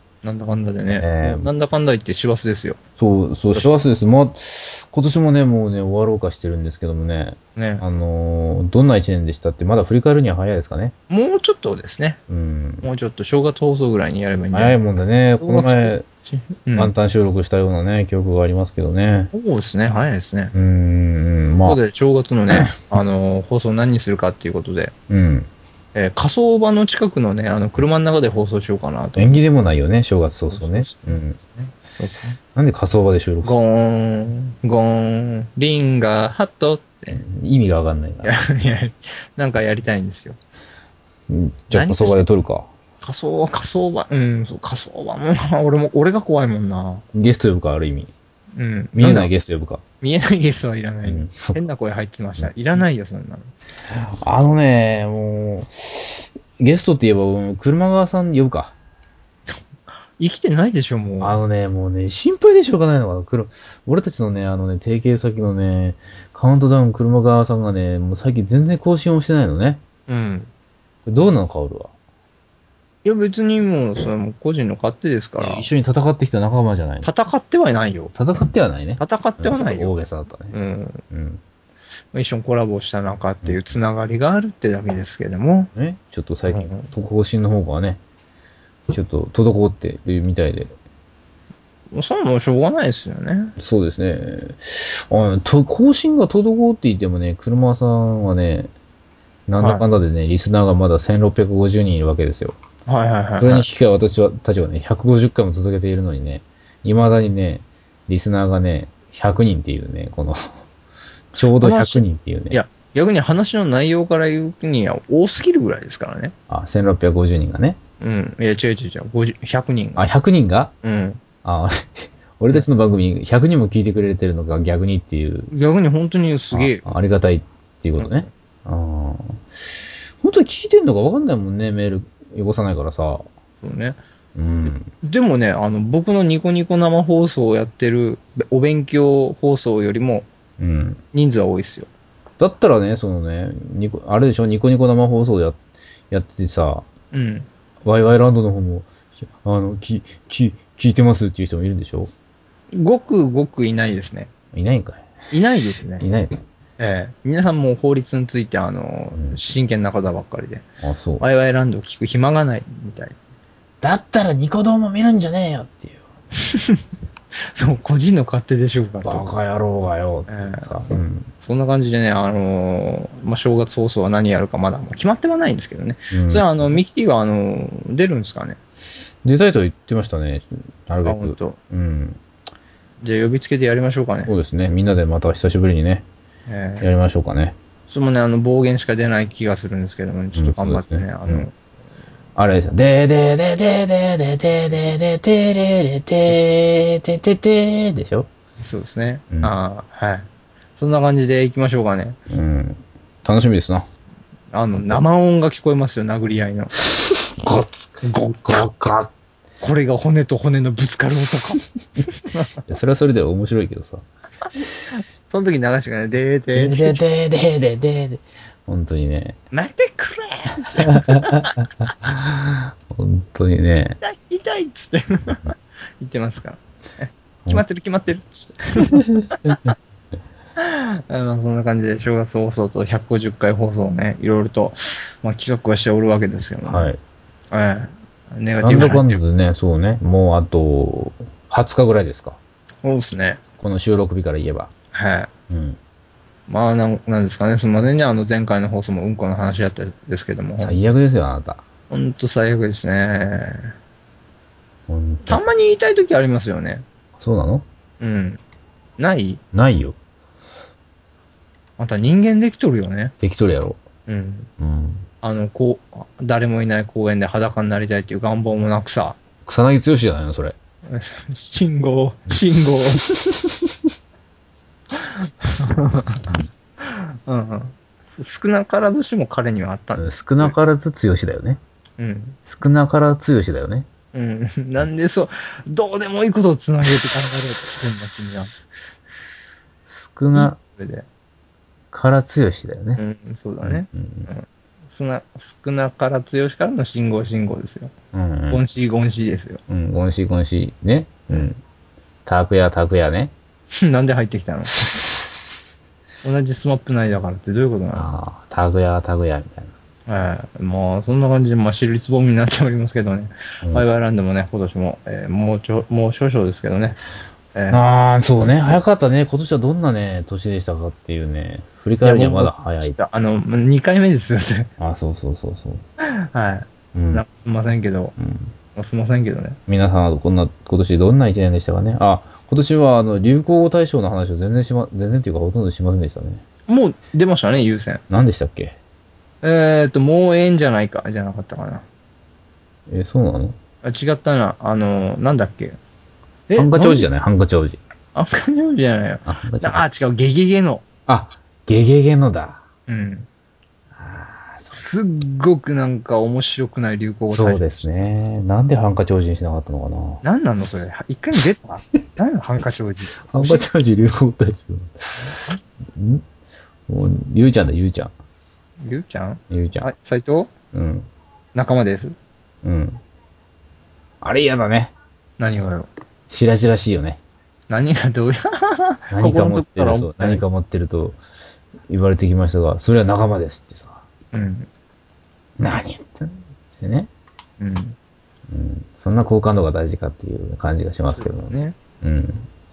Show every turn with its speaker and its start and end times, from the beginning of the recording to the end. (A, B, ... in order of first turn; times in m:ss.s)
0:00.2-0:02.8 A
0:00.9-0:01.5 B
0:03.0-0:11.0 B
0:07.6-0:07.8 A
0:11.1-0:12.2 A
0:12.3-0:12.9 B
0:12.8-0:14.8 A
0:14.5-0:16.1 B
0:15.4-0:16.9 A
0:16.8-0:19.3 B
0:19.3-0:20.5 A
0:20.5-0:21.8 B
0:21.6-0:24.9 A
0:25.1-0:25.5 B
0:26.0-0:29.4 A
0:29.2-0:31.4 B
0:30.5-0:32.4 A
0:32.6-0:33.6 B
0:33.4-0:37.2 A
0:37.1-0:38.3 B
0:38.2-0:40.4 A
0:41.3-0:42.7 B
0:41.7-0:42.2 A
0:43.0-0:47.0 A
0:47.1-0:48.1 B
0:48.6-0:49.3 A
0:49.0-0:49.8 B
0:50.0-0:53.5 A
0:51.0-0:51.6 B
0:52.4-0:52.8 B
0:53.9-0:58.8 B
1:00.2-1:01.4 A
1:01.2-1:09.8 B
1:10.1-1:10.5 A
1:11.1-1:11.9 B
1:13.0-1:15.7 A
1:15.4-1:17.1 B
1:17.0-1:18.1 A
1:18.1-1:20.6 B
1:19.0-1:20.0 A
1:20.5-1:21.0 A
1:21.1-1:21.4 B
1:22.1-1:25.7 A
1:25.8-1:28.0 B
1:26.5-1:26.9 A
1:28.9-1:30.7 B
1:31.9-1:33.5 A
1:33.6-1:38.7 B
1:39.5-1:42.6 B
1:39.6-1:39.9 A
1:42.9-1:43.7 A
1:43.4-1:50.6 B
1:51.3-1:52.6 B
1:51.4-1:56.3 A
1:56.5-1:57.8 B
1:58.0-2:00.1 A
2:00.0-2:00.7 B
2:00.8-2:01.2 A
2:01.4-2:05.5 B
2:05.5-2:06.8 A
2:06.5-2:09.4 B
2:08.0-2:08.3 A
2:10.2-2:13.2 B
2:13.6-2:14.0 A
2:14.4-2:14.9 B
2:14.6-2:20.3 A
2:20.6-2:21.0 B
2:21.1-2:21.9 A
2:22.4-2:26.9 B
2:27.1-2:27.5 A
2:27.8-2:32.1 B
2:32.7-2:34.3 A
2:34.5-2:35.1 B
2:35.3-2:36.0 A
2:36.0-2:36.4 B
2:36.8-2:40.6 A
2:40.8-2:41.2 B
2:41.2-2:43.2 A
2:43.8-2:46.0 B
2:46.4-2:46.8 A
2:47.6-2:49.3 A
2:49.0-2:51.3 B
2:50.3-2:50.7 A
2:51.4-2:58.6 A
2:56.1-2:56.5 B
2:59.2-3:02.2 B
3:01.0-3:01.6 A
3:03.0-3:04.3 A
3:04.3-3:06.0 B
3:06.5-3:06.9 A
3:06.8-3:07.6 B
3:07.9-3:11.5 A
3:10.4-3:11.5 B
3:12.4-3:18.3 B
3:18.6-3:20.3 A
3:20.8-3:22.2 A
3:22.3-3:23.9 B
3:24.5-3:26.7 A
3:24.8-3:25.0 B
3:26.8-3:29.1 B
3:28.0-3:28.6 A
3:29.6-3:32.6 A
3:32.7-3:34.0 B
3:35.3-3:37.0 A
3:36.6-3:39.4 B
3:39.5-3:41.5 A
3:40.8-3:44.0 B
3:44.0-3:49.7 A
3:48.8-3:49.7 B
3:50.6-3:56.9 A
3:56.7-3:57.0 B
3:57.5-3:59.2 A
3:58.6-4:02.4 B
4:02.8-4:03.4 A
4:03.6-4:04.7 B
4:04.9-4:05.3 A
4:05.5-4:05.8 B
4:06.5-4:10.8 A
4:10.6-4:11.6 B
4:11.9-4:13.8 A
4:14.9-4:15.4 B
4:15.3-4:16.8 A
4:17.2-4:17.6 B
4:18.0-4:18.4 A
4:19.0-4:19.4 A
4:19.5-4:20.0 B
4:21.8-4:23.1 A
4:23.2-4:23.8 B
4:24.1-4:24.5 A
4:24.6-4:25.1 B
4:25.2-4:29.2 A
4:29.5-4:30.6 B
4:30.9-4:33.1 A
4:34.9-4:36.3 A
4:36.8-4:40.6 A
4:40.0-4:41.6 B
4:42.0-4:42.4 A
4:42.5-4:43.9 B
4:44.1-4:48.5 A
4:49.9-4:50.6 B
4:50.3-4:51.1 A
4:51.9-4:53.0 B
4:53.0-4:57.9 A
4:53.6-4:54.3 B
4:58.1-4:58.6 B
4:58.5-4:59.6 A
4:59.7-5:01.6 B
5:02.3-5:03.3 B
5:03.7-5:04.8 A
5:04.7-5:05.7 B
5:06.2-5:08.1 A
5:08.0-5:09.7 B
5:10.1-5:17.0 A
5:17.5-5:17.9 A
5:17.7-5:23.0 B
5:22.0-5:24.7 A
5:24.8-5:25.8 B
5:26.2-5:28.1 A
5:26.9-5:27.2 B
5:28.2-5:28.5 B
5:28.8-5:29.6 A
5:29.7-5:36.4 B
5:36.7-5:38.0 A
5:38.1-5:38.8 B
5:39.4-5:41.8 A
5:42.9-5:43.6 B
5:43.8-5:45.8 A
5:46.5-5:47.1 A
5:46.6-5:47.8 B
5:48.1-5:50.8 A
5:49.3-5:49.8 B
5:51.1-5:52.6 B
5:52.9-5:53.3 A
5:54.0-5:54.8 B
5:54.7-5:57.8 A
5:57.3-6:00.2 B
6:00.2-6:03.7 A
6:03.3-6:05.4 B
6:05.9-6:06.2 B
6:06.9-6:08.1 B
6:08.8-6:10.5 A
6:09.5-6:09.9 B
6:10.7-6:11.1 B
6:11.5-6:12.2 A
6:12.6-6:13.0 B
6:14.2-6:14.9 B
6:15.4-6:15.9 A
6:16.3-6:17.2 B
6:17.7-6:20.4 A
6:19.1-6:21.2 B
6:21.9-6:24.0 B
6:24.3-6:24.7 A
6:25.6-6:27.1 B
6:27.6-6:28.0 A
6:28.5-6:32.5 B
6:31.1-6:31.8 A